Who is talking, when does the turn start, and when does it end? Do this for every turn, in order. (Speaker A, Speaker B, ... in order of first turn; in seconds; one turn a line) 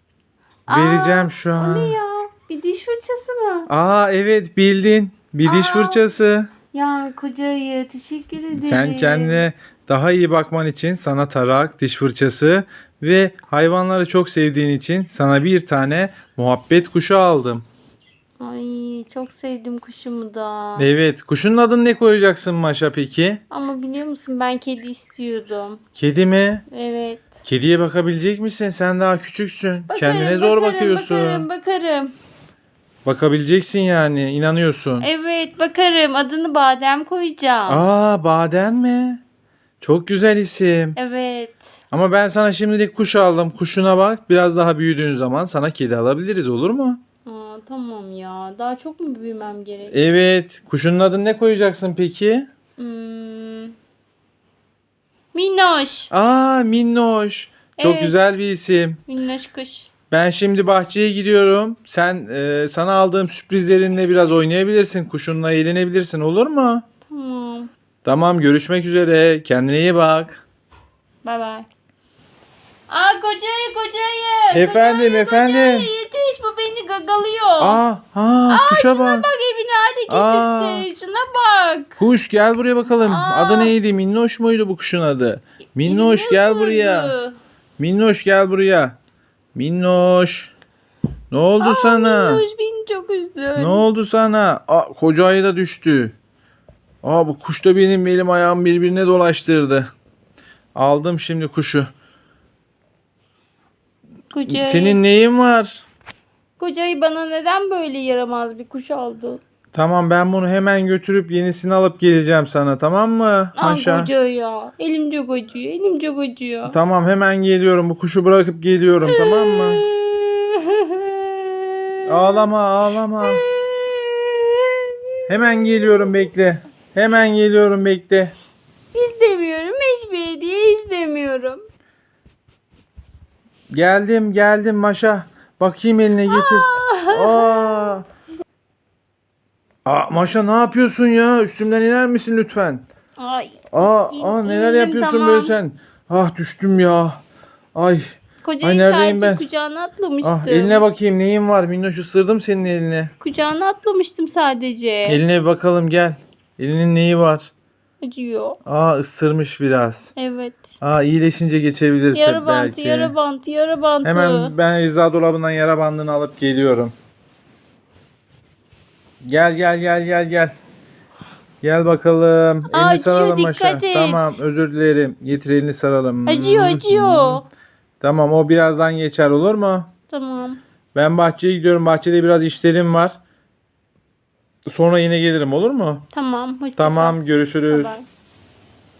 Speaker A: 0.7-3.7
Speaker B: 0.7-1.9
Speaker B: 3.7-6.5
Speaker A: 5.4-6.0
Speaker A: 6.7-9.4
Speaker B: 8.5-17.6
Speaker A: 18.4-20.9
Speaker B: 20.8-23.4
Speaker A: 23.5-25.8
Speaker B: 25.9-26.6
Speaker A: 26.7-27.3
Speaker B: 27.4-31.5
Speaker A: 29.9-32.1
Speaker B: 33.0-35.1
Speaker A: 35.0-37.9
Speaker B: 37.7-39.2
Speaker B: 39.8-41.0
Speaker A: 41.0-41.6
Speaker B: 41.9-47.0
Speaker A: 47.2-50.0
Speaker B: 49.9-52.5
Speaker A: 52.8-53.7
Speaker A: 55.3-56.1
Speaker B: 56.1-59.0
Speaker A: 57.7-58.1
Speaker A: 59.1-59.9
Speaker B: 60.1-66.8
Speaker A: 67.1-67.7
Speaker B: 68.0-70.4
Speaker A: 71.2-71.7
Speaker A: 72.9-77.8
Speaker B: 74.5-75.9
Speaker B: 77.6-79.2
Speaker A: 78.5-82.0
Speaker B: 80.1-80.8
Speaker B: 82.0-87.1
Speaker A: 83.0-83.7
Speaker A: 85.8-87.4
Speaker B: 87.8-89.0
Speaker B: 89.5-90.5
Speaker B: 91.3-92.4
Speaker A: 91.6-93.8
Speaker B: 93.5-96.1
Speaker B: 97.0-99.9
Speaker B: 100.7-101.9
Speaker A: 104.3-105.0
Speaker B: 104.5-105.8
Speaker A: 106.6-109.4
Speaker B: 109.7-114.1
Speaker A: 113.5-116.8
Speaker B: 116.7-119.8
Speaker A: 119.0-122.5
Speaker B: 122.0-123.4
Speaker A: 123.2-126.2
Speaker B: 125.3-128.3
Speaker A: 128.9-131.6
Speaker B: 133.7-138.1
Speaker A: 136.3-137.9
Speaker B: 139.8-142.8
Speaker A: 143.2-145.6
Speaker B: 143.7-147.2
Speaker B: 147.7-149.4
Speaker A: 148.4-150.8
Speaker B: 150.2-153.1
Speaker A: 153.2-155.2
Speaker B: 155.1-157.5
Speaker A: 158.0-158.6
Speaker B: 158.6-160.1
Speaker A: 160.2-160.7
Speaker B: 160.8-163.1
Speaker A: 162.1-164.5
Speaker B: 164.0-166.9
Speaker B: 169.2-170.5
Speaker B: 171.6-177.4
Speaker A: 172.7-174.4
Speaker A: 176.2-177.4
Speaker B: 178.0-179.9
Speaker A: 180.1-180.6
Speaker B: 180.9-183.2
Speaker B: 184.7-186.1
Speaker A: 186.1-188.1
Speaker B: 186.8-188.0